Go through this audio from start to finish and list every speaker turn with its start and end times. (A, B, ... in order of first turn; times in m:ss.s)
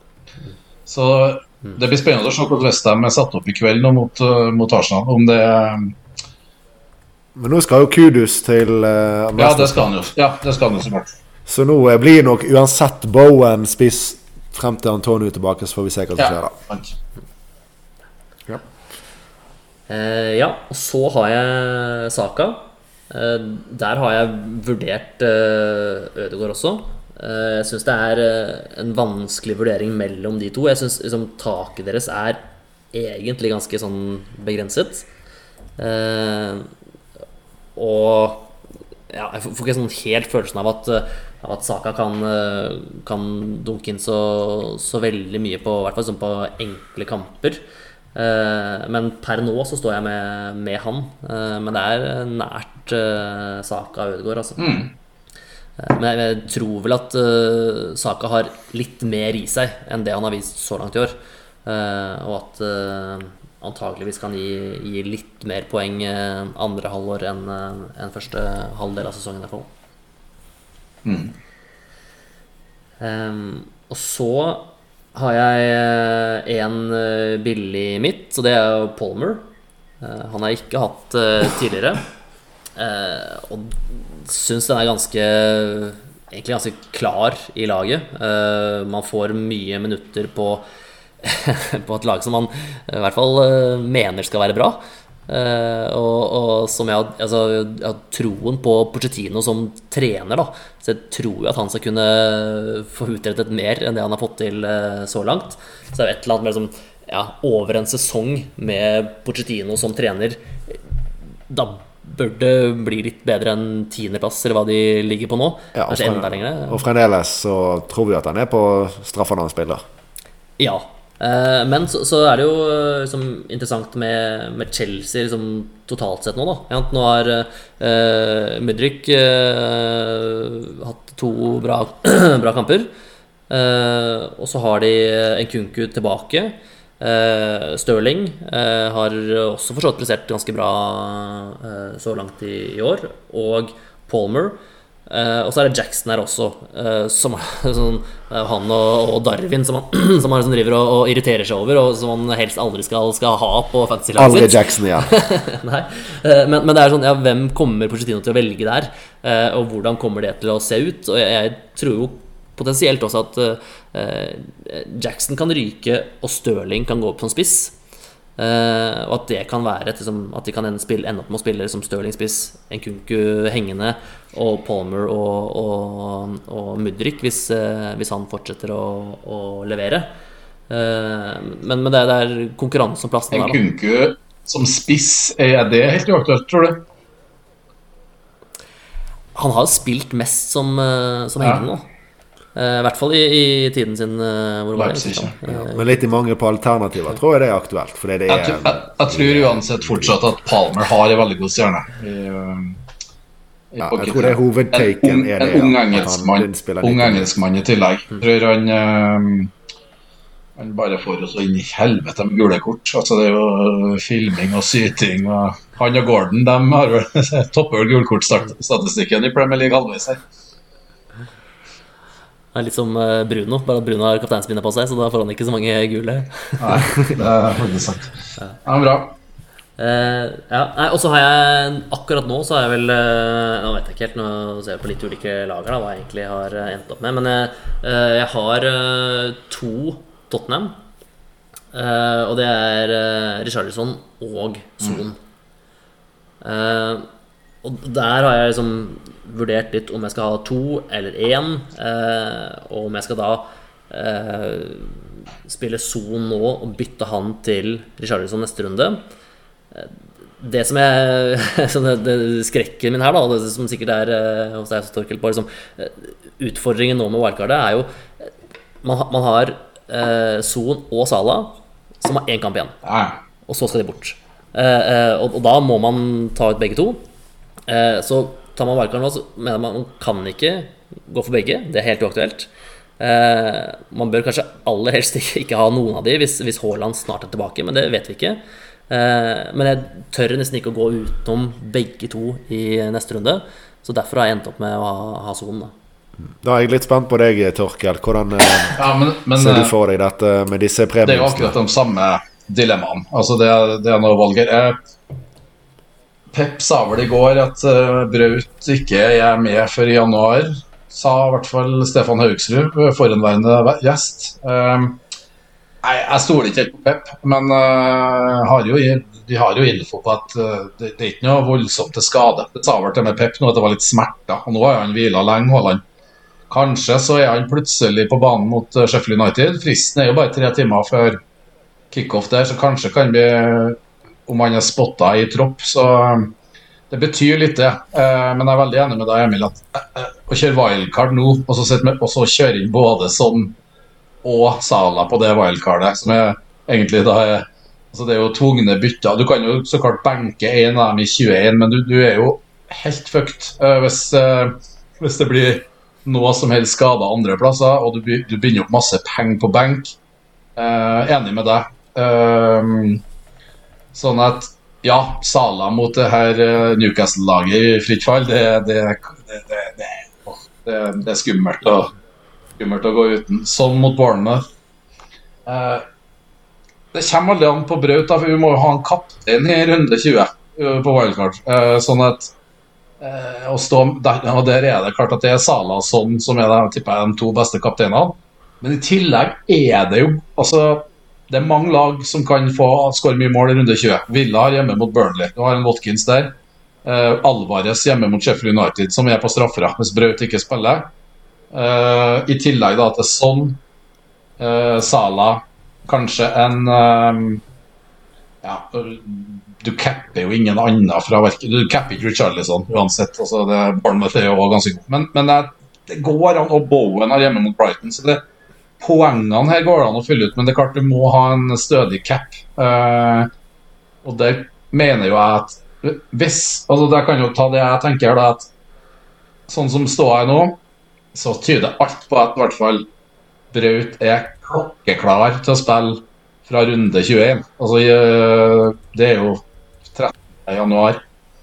0:00.9-0:05.9 A
0:07.3-0:09.9 B
0:09.4-0:11.1 A
0:11.5-0:16.5 B
0:16.2-0:17.0 A
0:19.9-0:35.1 C
0:35.8-0:36.7 C
0:37.8-0:38.5 C
0:39.1-0:47.6 C
0:48.1-0:54.8 C
0:54.6-0:54.9 A
0:55.8-1:09.7 C
1:11.0-1:11.3 A
1:13.0-1:19.4 C
1:20.0-1:22.0 C
1:22.8-1:30.6 C
1:31.2-1:50.8 C
1:51.5-1:56.8 C
1:55.7-1:59.8 B
2:00.6-2:12.9 C
2:13.5-2:47.8 C
2:34.2-2:35.1 B
2:48.4-3:00.1 C
3:00.7-3:03.6 C
3:03.3-3:06.8 A
3:09.3-3:11.9 C
3:12.5-3:15.9 C
3:14.8-3:15.4 A
3:15.7-3:20.2 B
3:18.3-3:22.8 A
3:23.7-3:29.5 A
3:23.8-3:27.3 B
3:30.6-3:40.2 A
3:42.5-3:46.9 C
3:46.6-3:49.1 A
3:49.8-4:00.8 C
4:01.7-4:05.2 C
4:06.4-4:07.1 C
4:07.6-4:19.0 C
4:19.7-4:28.3 C
4:28.8-4:32.7 C
4:32.8-4:33.2 A
4:33.5-4:37.0 C
4:37.7-4:55.7 C
4:56.4-5:01.6 B
4:58.7-4:59.7 A
5:01.0-5:04.8 A
5:06.3-5:15.0 A
5:15.8-5:25.8 A
5:26.5-5:31.2 A
5:31.9-5:36.3 A
5:36.9-5:43.6 A
5:44.2-6:00.0 A
6:00.6-6:03.0 A
6:03.9-6:11.9 A
6:12.6-6:14.4 A
6:15.4-6:15.8 A
6:16.9-6:22.3 A
6:23.0-6:40.9 A
6:41.5-6:43.6 A
6:44.4-6:47.4 A
6:48.4-6:58.2 A
6:58.8-7:03.3 A
7:04.0-7:08.5 A
7:09.5-7:10.6 A
7:11.1-7:12.9 A
7:13.5-7:21.0 A